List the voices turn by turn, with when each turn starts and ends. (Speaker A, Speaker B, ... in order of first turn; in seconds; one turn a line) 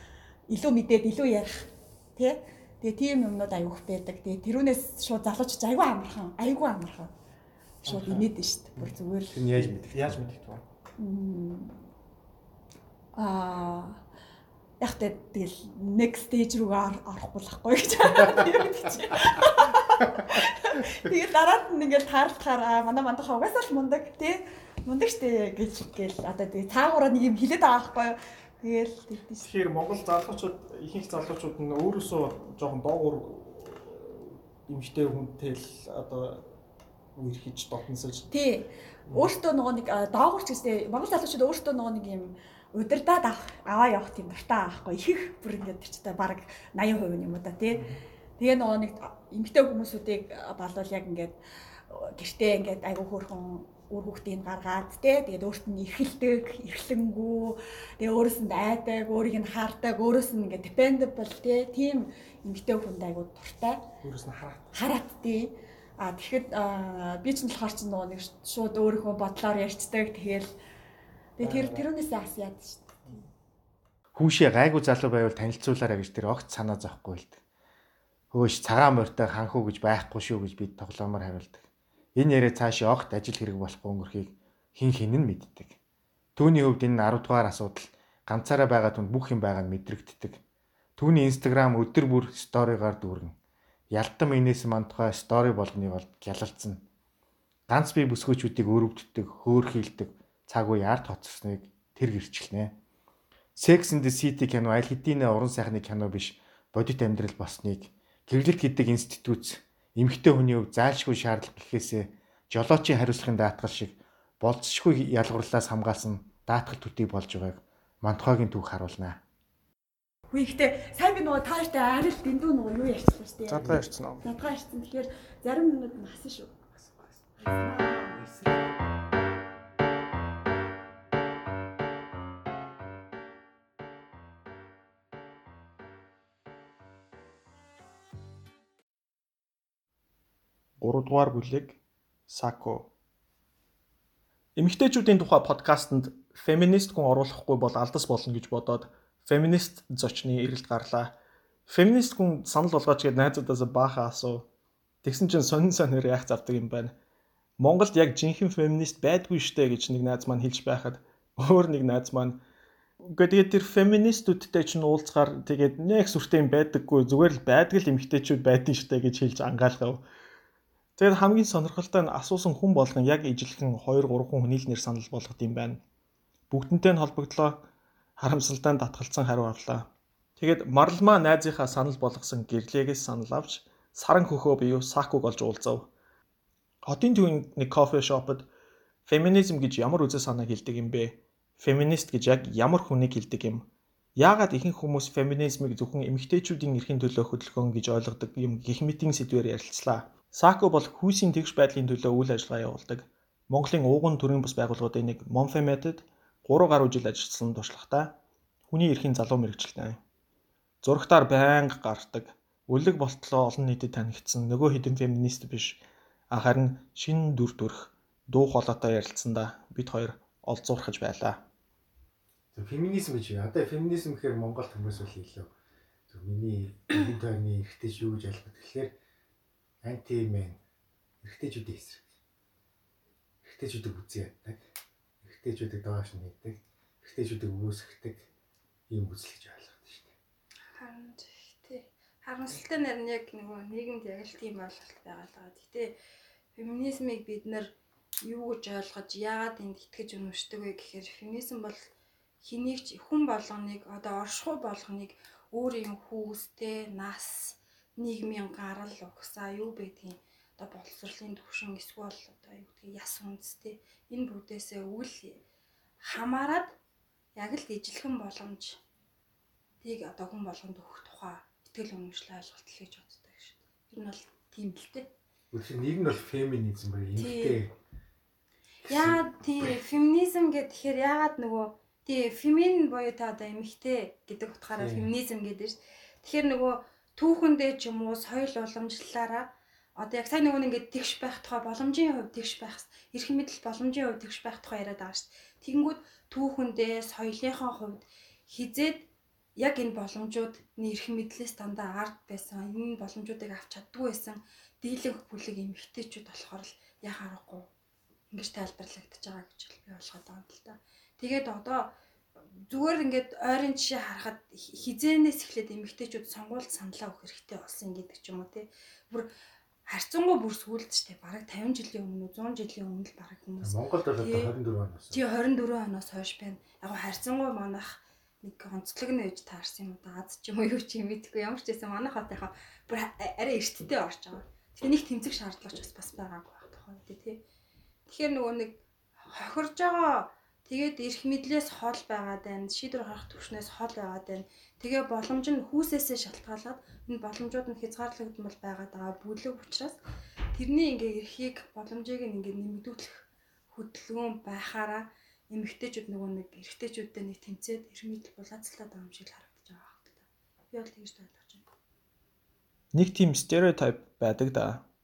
Speaker A: 0.5-7.1
Speaker A: 7.8-9.4
Speaker B: 7.8-8.3
Speaker C: 9.3-10.2
Speaker B: 9.5-10.6
Speaker A: 11.0-11.8
Speaker A: 13.2-14.0
Speaker A: 14.8-29.5
Speaker B: 29.4-36.5
Speaker B: 37.1-38.3
Speaker A: 38.3-47.9
Speaker B: 39.1-39.3
Speaker B: 47.7-48.0
Speaker A: 48.4-51.4
Speaker A: 51.9-63.8
Speaker B: 64.0-64.8
Speaker A: 64.7-70.5
Speaker A: 71.4-72.9
Speaker B: 71.4-71.9
Speaker C: 74.2-77.4
Speaker C: 78.3-81.7
Speaker C: 82.2-85.8
Speaker C: 86.4-90.4
Speaker C: 91.0-93.4
Speaker C: 93.9-96.8
Speaker C: 97.7-102.8
Speaker C: 103.6-119.2
Speaker A: 120.3-128.6
Speaker B: 123.5-124.2
Speaker B: 140.8-142.9
Speaker B: 144.6-151.1
Speaker B: 151.7-154.5
Speaker B: 155.0-157.0
Speaker B: 157.6-162.4
Speaker B: 163.0-170.0
Speaker B: 171.0-175.8
Speaker B: 176.5-185.9
Speaker B: 186.8-188.5
Speaker B: 189.1-208.2
Speaker B: 208.7-210.0
Speaker B: 210.8-221.4
Speaker C: 222.5-225.5
Speaker C: 226.1-228.9
Speaker C: 229.8-230.6
Speaker C: 231.2-232.1
Speaker C: 233.4-234.6
Speaker C: 235.2-238.3
Speaker C: 238.9-240.1
Speaker D: 240.8-245.9
Speaker D: 246.6-247.7
Speaker D: 248.2-251.9
Speaker D: 252.4-265.4
Speaker D: 266.0-266.7
Speaker D: 267.4-268.8
Speaker D: 269.8-275.1
Speaker C: 275.5-277.7
Speaker D: 277.2-277.6
Speaker D: 278.9-299.0
Speaker C: 278.9-279.2
Speaker C: 284.7-285.1
Speaker D: 299.6-307.7
Speaker D: 308.3-311.9
Speaker D: 312.7-319.3
Speaker D: 319.9-324.5
Speaker C: 323.6-325.2
Speaker D: 325.1-337.4
Speaker D: 338.1-338.8
Speaker D: 339.3-350.0
Speaker D: 350.6-361.7
Speaker B: 362.9-364.8